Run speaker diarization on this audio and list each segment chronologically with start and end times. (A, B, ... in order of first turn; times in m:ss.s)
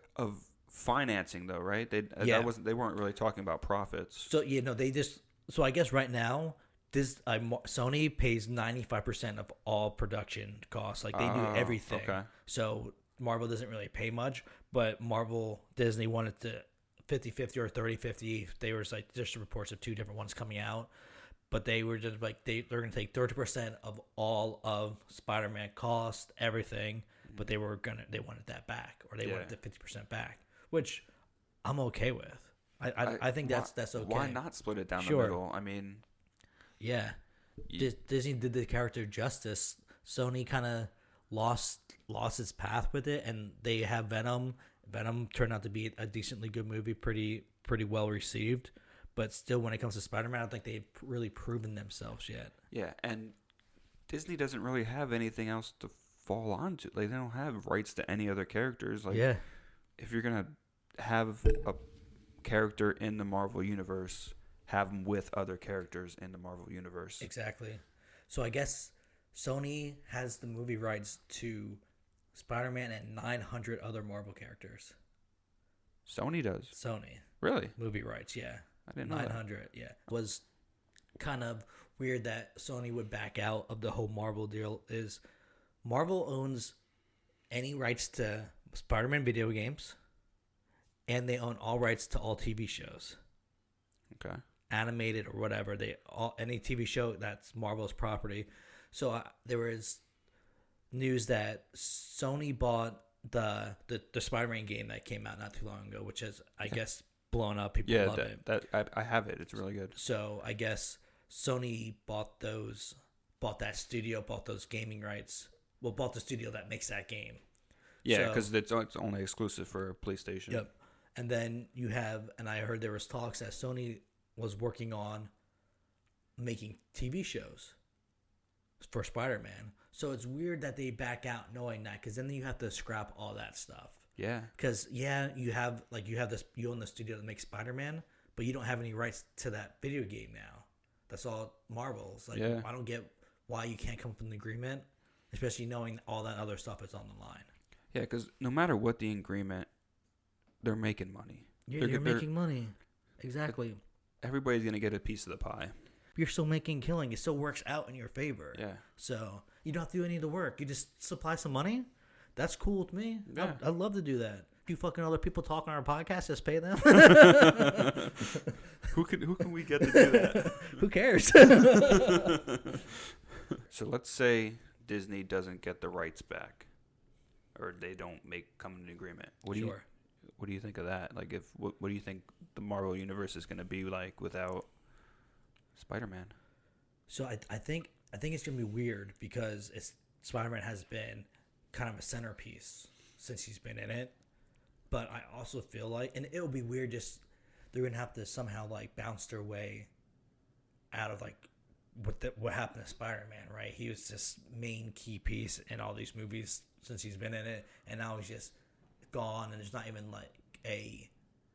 0:00.2-0:04.3 A
0:02.2-0:02.5 B
0:04.3-0:20.9 B
0:11.1-0:12.3 A
0:21.5-0:31.1 B
0:29.2-0:29.6 A
0:31.6-0:34.4 B
0:33.0-0:36.0 A
0:35.0-0:35.4 B
0:36.8-0:37.2 B
0:37.8-0:52.6 B
0:52.7-0:53.4 A
0:54.1-0:59.3 A
0:59.1-0:59.4 B
1:00.0-1:01.8 A
1:02.4-1:07.3 A
1:07.2-1:11.8 B
1:12.3-1:15.0 B
1:16.1-1:16.7 A
1:16.7-1:17.2 B
1:17.4-1:17.8 A
1:17.8-1:20.4 B
1:18.9-1:19.4 A
1:21.2-1:25.2 B
1:25.8-1:26.8 B
1:27.5-1:30.0 B
1:31.1-1:33.2 B
1:34.1-1:34.4 A
1:34.7-1:40.0 B
1:40.9-1:48.4 B
1:47.9-1:50.0 A
1:49.9-1:57.4 B
1:58.0-2:00.6 A
1:58.1-1:58.5 B
2:00.5-2:05.3 B
2:06.4-2:07.8 B
2:08.8-2:27.5 B
2:14.2-2:14.5 A
2:22.3-2:22.7 A
2:27.9-2:29.7 A
2:30.6-2:32.3 A
2:31.7-2:33.8 B
2:34.2-2:35.8 A
2:36.2-2:48.6 B
2:38.5-2:38.8 A
2:43.3-2:43.6 A
2:46.9-2:48.3 A
2:48.9-2:50.8 A
2:49.8-2:52.4 B
2:51.7-2:56.7 A
2:57.6-2:59.8 A
2:59.5-2:59.8 B
3:00.4-3:04.7 A
3:05.8-3:06.3 A
3:07.1-3:14.2 B
3:14.9-3:19.9 B
3:20.9-3:28.6 B
3:29.1-3:31.1 B